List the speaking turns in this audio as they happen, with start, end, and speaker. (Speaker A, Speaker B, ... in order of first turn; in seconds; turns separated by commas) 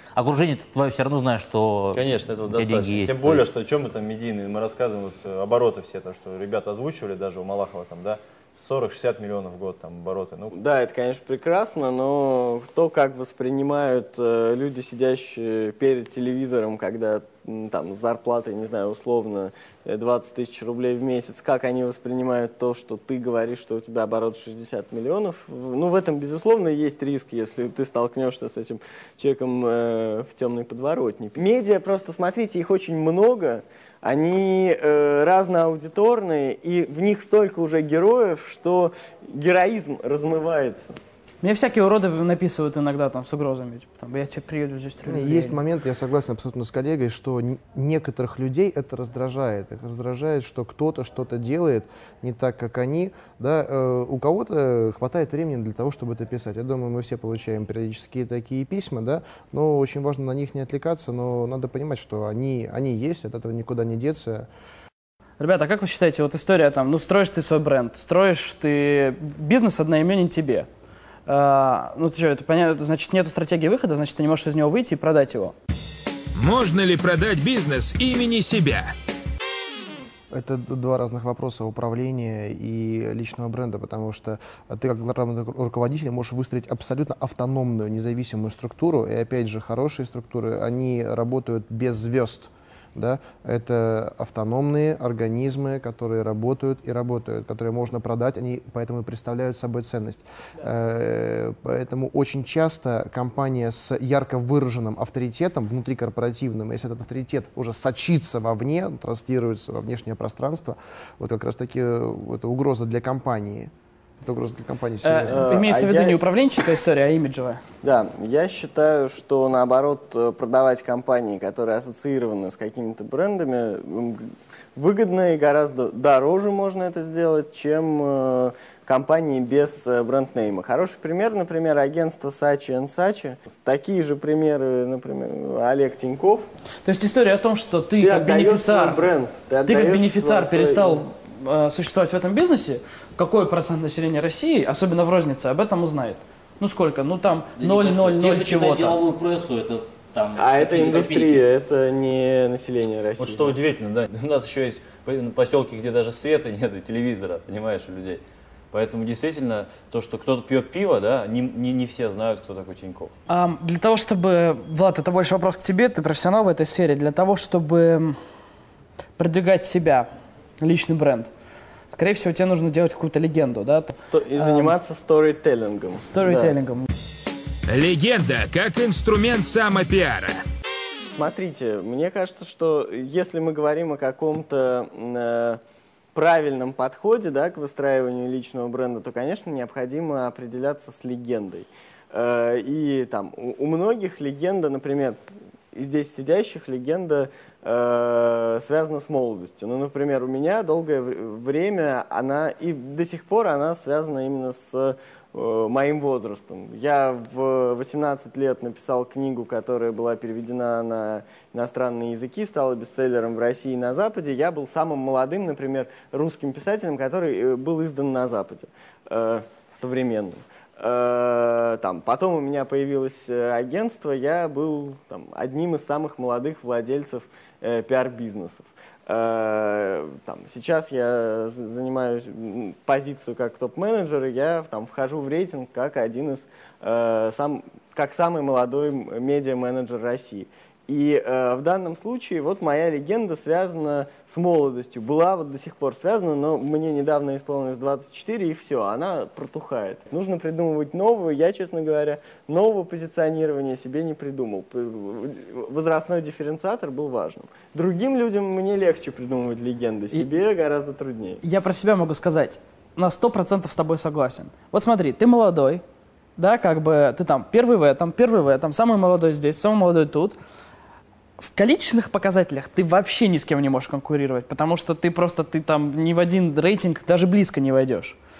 Speaker A: 0.1-3.5, Speaker B: 1.9-10.5, Speaker C: 10.5-41.0, Speaker D: 41.4-45.6, Speaker E: 45.0-64.5, Speaker D: 65.4-70.7, Speaker D: 71.2-75.5, Speaker F: 76.3-78.9, Speaker E: 80.3-115.6, Speaker D: 115.0-117.6, Speaker C: 115.3-116.2, Speaker C: 117.8-136.5, Speaker D: 136.8-139.0, Speaker C: 138.0-141.0, Speaker D: 139.6-149.0, Speaker A: 147.6-151.4, Speaker C: 150.4-153.6, Speaker B: 153.2-163.1, Speaker D: 163.3-168.2, Speaker D: 169.2-170.1, Speaker D: 170.6-171.3, Speaker D: 171.9-174.8, Speaker C: 174.1-176.5, Speaker D: 176.0-176.9, Speaker F: 177.7-180.4, Speaker C: 181.1-185.6, Speaker C: 186.1-195.2, Speaker C: 195.7-261.4, Speaker D: 261.4-265.8, Speaker D: 266.4-270.4, Speaker D: 271.4-278.2